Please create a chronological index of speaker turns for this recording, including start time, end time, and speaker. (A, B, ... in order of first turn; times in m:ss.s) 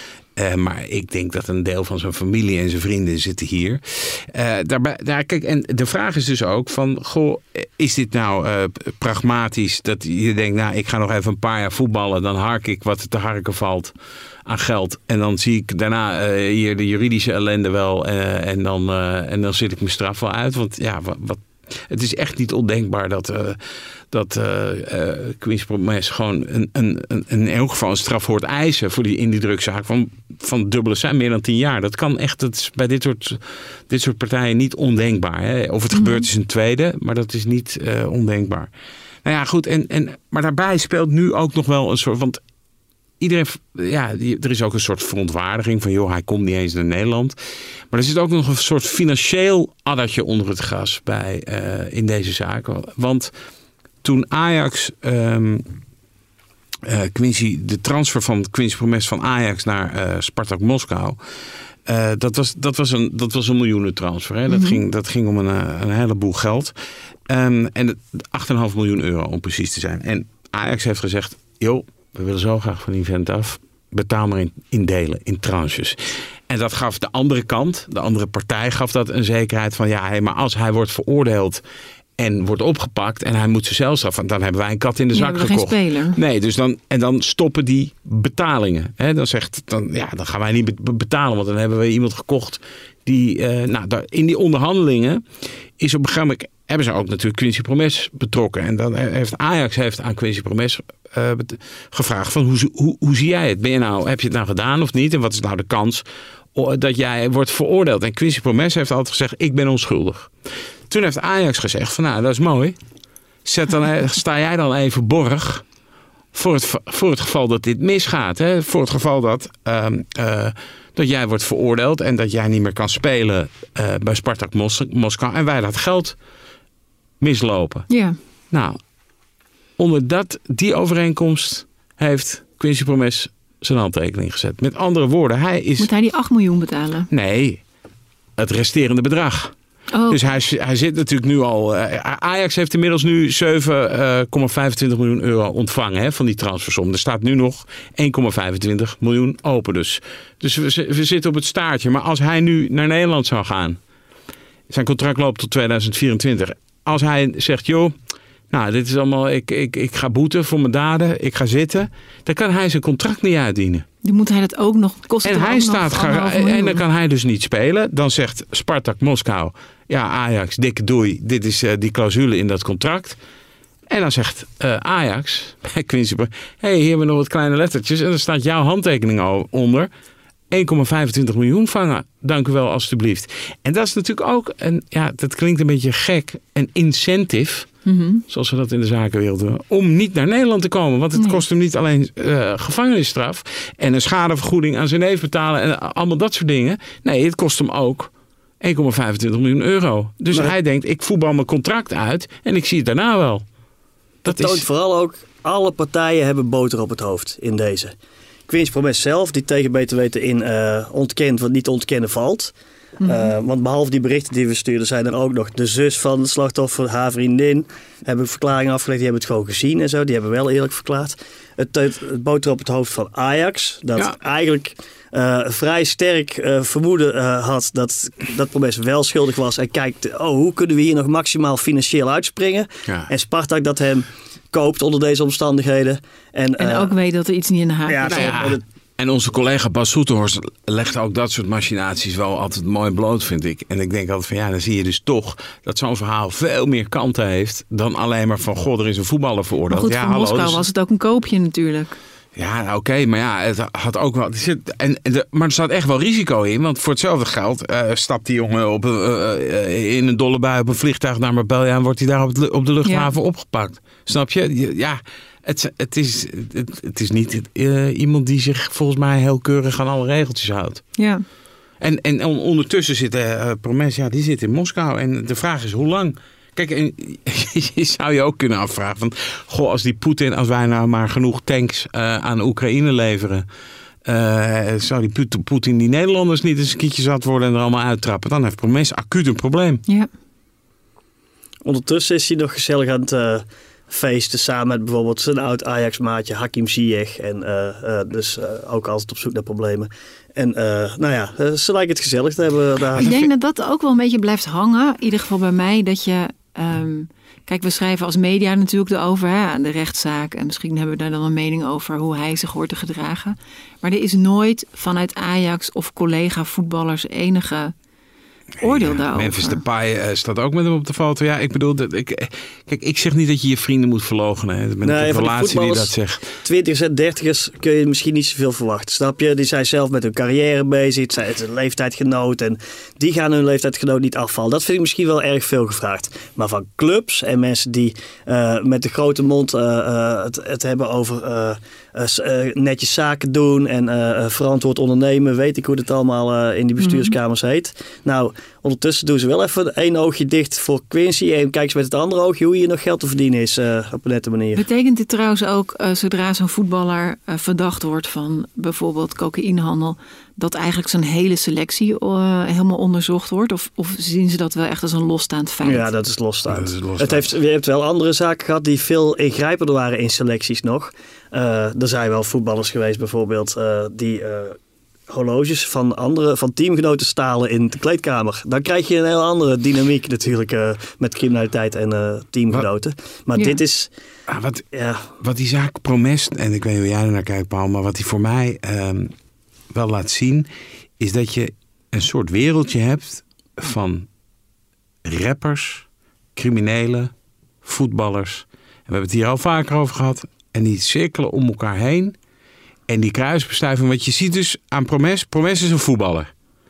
0:00.4-0:13.9 A
0:14.5-0:23.6 A
0:24.1-0:38.7 A
0:35.9-0:36.3 B
0:39.2-0:42.4 A
0:43.2-0:47.4 A
0:47.9-0:53.3 A
0:54.0-0:55.7 A
0:56.8-1:01.2 A
1:01.9-1:06.7 A
1:04.5-1:04.8 B
1:07.3-1:21.6 A
1:22.2-1:35.2 A
1:25.1-1:26.2 B
1:35.8-1:50.3 A
1:50.9-1:52.8 A
1:53.4-1:55.6 A
1:56.3-2:06.2 A
2:07.2-2:07.9 A
2:07.9-2:08.2 B
2:08.5-2:08.8 A
2:09.8-2:15.9 A
2:15.8-2:17.1 B
2:17.1-2:17.6 A
2:18.4-2:19.5 A
2:19.9-2:20.2 B
2:20.1-2:33.8 A
2:34.7-2:38.0 A
2:38.5-2:43.9 A
2:44.0-2:46.8 B
2:45.2-2:53.2 A
2:53.9-2:59.9 A
3:00.5-3:07.7 A
3:07.8-3:08.2 B
3:08.3-3:18.1 A
3:11.2-3:11.4 B
3:18.6-3:23.4 A
3:24.2-3:24.6 A
3:24.2-3:28.0 C
3:28.5-3:56.9 C
3:33.0-3:33.3 B
3:56.6-3:58.4 B
3:57.9-3:58.6 C
3:58.1-4:10.6 A
4:09.7-4:12.0 B
4:12.4-4:30.8 A
4:22.8-4:23.1 B
4:31.0-4:31.2 B
4:31.8-4:43.5 A
4:44.1-4:49.8 A
4:51.6-5:03.2 C
5:03.0-5:17.7 B
5:18.6-5:26.3 A
5:18.6-5:19.6 B
5:24.8-5:54.6 C
5:46.8-5:47.2 B
5:54.5-6:05.9 B
6:05.6-6:23.9 C
6:06.5-6:07.3 A
6:24.3-6:24.6 A
6:24.7-6:25.1 C
6:25.2-6:29.1 A
6:29.7-6:30.5 A
6:31.0-6:34.1 A
6:35.0-6:35.8 A
6:36.4-6:37.1 A
6:37.6-6:42.2 A
6:42.9-6:46.3 A